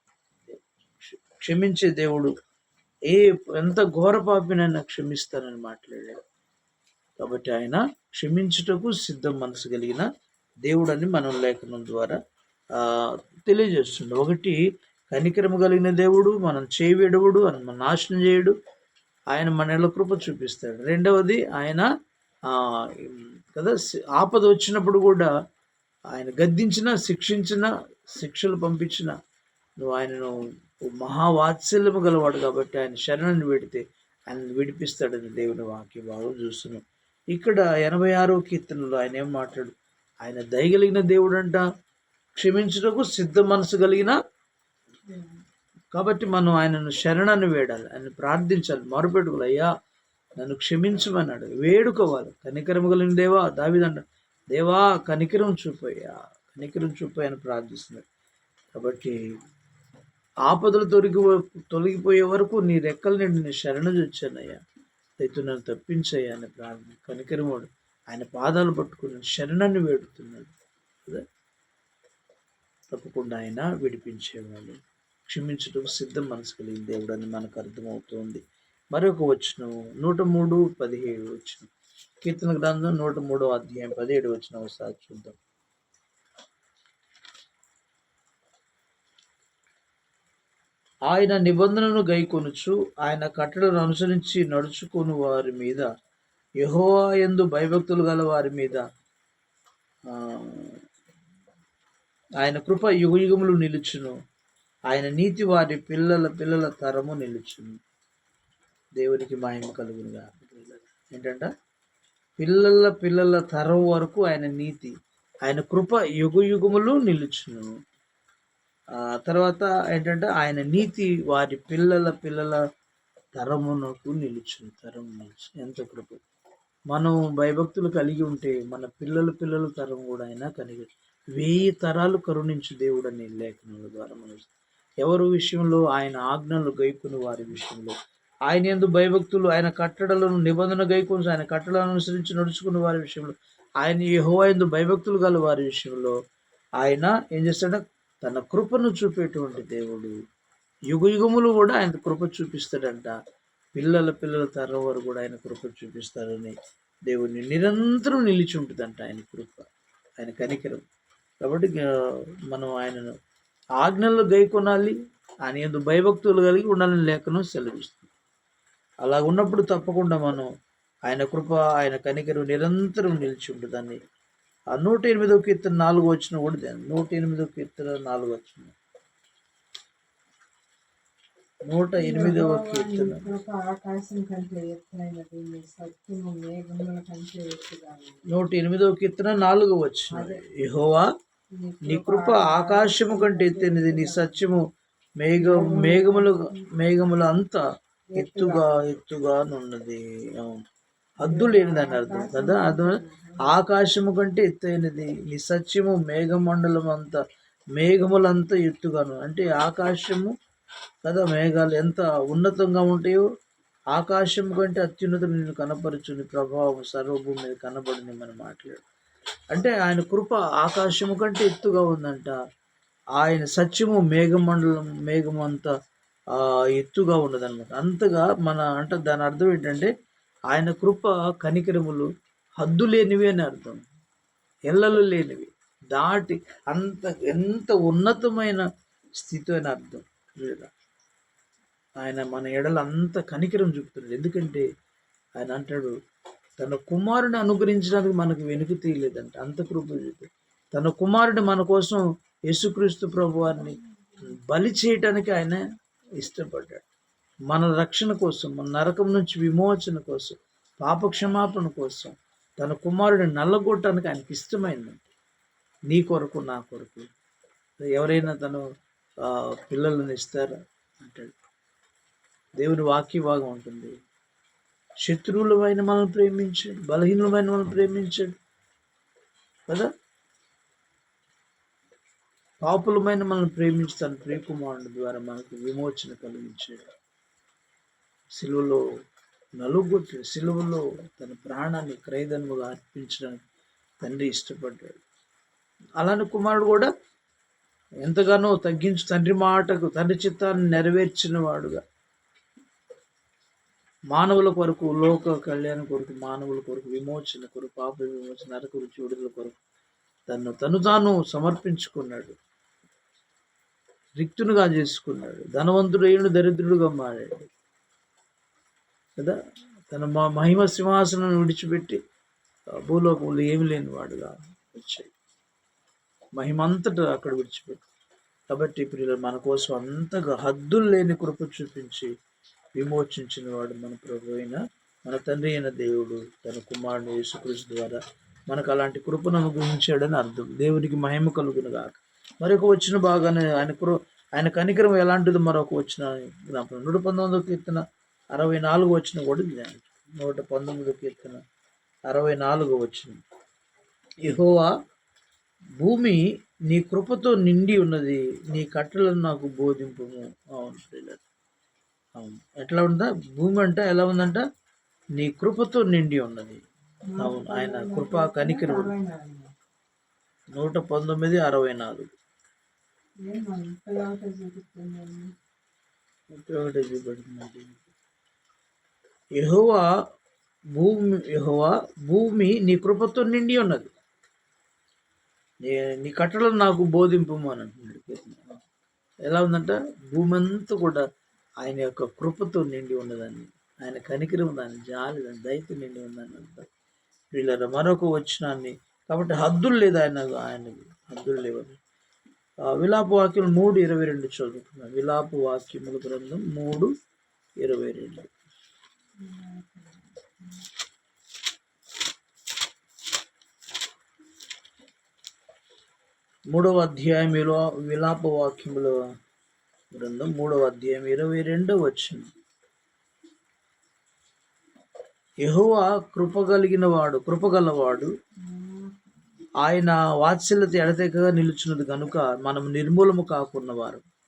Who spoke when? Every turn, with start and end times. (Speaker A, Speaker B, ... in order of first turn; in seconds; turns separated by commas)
Speaker A: 0.5-2.3, Speaker A: 3.1-6.2, Speaker A: 7.2-10.0, Speaker A: 10.6-12.2, Speaker A: 12.8-14.6, Speaker A: 15.1-18.5, Speaker A: 19.3-21.9, Speaker A: 22.5-25.3, Speaker A: 26.1-29.1, Speaker A: 29.8-30.3, Speaker A: 30.9-41.6, Speaker A: 42.4-44.1, Speaker B: 45.1-45.4, Speaker A: 45.9-49.7, Speaker A: 50.4-54.0, Speaker A: 54.5-58.0, Speaker A: 58.7-59.2, Speaker A: 60.5-64.6, Speaker A: 65.2-70.5, Speaker A: 72.9-74.8, Speaker A: 75.3-81.7, Speaker A: 82.2-85.4, Speaker A: 91.1-95.9, Speaker A: 96.6-98.8, Speaker A: 100.1-100.8, Speaker A: 102.4-104.1, Speaker A: 104.9-107.8, Speaker A: 109.0-111.5, Speaker A: 112.4-114.9, Speaker A: 115.4-117.7, Speaker A: 119.0-122.6, Speaker A: 123.3-126.2, Speaker A: 126.9-134.5, Speaker A: 135.0-137.9, Speaker A: 138.5-146.2, Speaker A: 146.8-150.1, Speaker A: 150.9-153.2, Speaker A: 153.8-156.5, Speaker A: 157.1-159.7, Speaker A: 160.2-160.8, Speaker A: 161.4-161.8, Speaker A: 162.5-163.1, Speaker A: 163.8-168.1, Speaker A: 169.0-170.5, Speaker A: 171.1-174.0, Speaker A: 174.7-178.7, Speaker A: 181.7-183.3, Speaker B: 182.0-188.3, Speaker A: 188.3-191.1, Speaker B: 190.1-190.4, Speaker B: 191.5-194.6, Speaker A: 191.8-194.7, Speaker A: 195.2-197.6, Speaker B: 195.4-196.7, Speaker B: 198.1-198.9, Speaker A: 198.2-200.6, Speaker A: 201.2-207.2, Speaker B: 201.2-203.6, Speaker A: 207.8-210.3, Speaker A: 211.0-213.2, Speaker A: 213.9-218.8, Speaker A: 219.5-222.4, Speaker A: 223.2-225.7, Speaker A: 226.3-229.9, Speaker A: 230.5-232.1, Speaker A: 232.6-233.8, Speaker A: 234.7-238.7, Speaker A: 239.2-240.7, Speaker A: 242.0-244.7, Speaker A: 245.4-245.9, Speaker A: 246.6-255.6, Speaker A: 256.2-256.9, Speaker A: 257.5-265.1, Speaker A: 265.9-267.1, Speaker A: 267.8-268.6, Speaker A: 269.2-271.3, Speaker A: 272.6-273.9, Speaker A: 275.0-278.3, Speaker A: 282.6-286.9, Speaker A: 288.3-288.8, Speaker A: 289.6-293.4, Speaker A: 294.0-295.0, Speaker A: 296.0-296.9, Speaker A: 298.0-301.8, Speaker A: 304.1-309.6, Speaker A: 310.3-312.4, Speaker A: 314.2-317.5, Speaker A: 319.9-322.0, Speaker A: 322.9-325.1, Speaker A: 326.4-327.8, Speaker A: 328.5-332.1, Speaker A: 332.8-338.0, Speaker A: 338.5-347.8, Speaker A: 348.3-351.4, Speaker A: 352.1-353.2, Speaker A: 354.2-354.7, Speaker A: 355.8-361.2, Speaker A: 362.2-364.4, Speaker A: 365.2-366.6, Speaker B: 367.1-369.5, Speaker A: 367.2-368.9, Speaker A: 370.6-372.1, Speaker B: 373.2-375.3, Speaker A: 376.3-377.9, Speaker A: 379.4-379.8, Speaker A: 380.8-383.9, Speaker A: 385.6-388.6, Speaker A: 389.3-391.0, Speaker A: 391.6-396.7, Speaker A: 397.3-401.8, Speaker A: 402.7-406.9, Speaker A: 407.6-408.3, Speaker B: 409.2-410.6, Speaker A: 416.5-418.9, Speaker A: 419.9-422.3, Speaker A: 425.4-428.1, Speaker B: 428.4-429.0, Speaker A: 429.6-434.0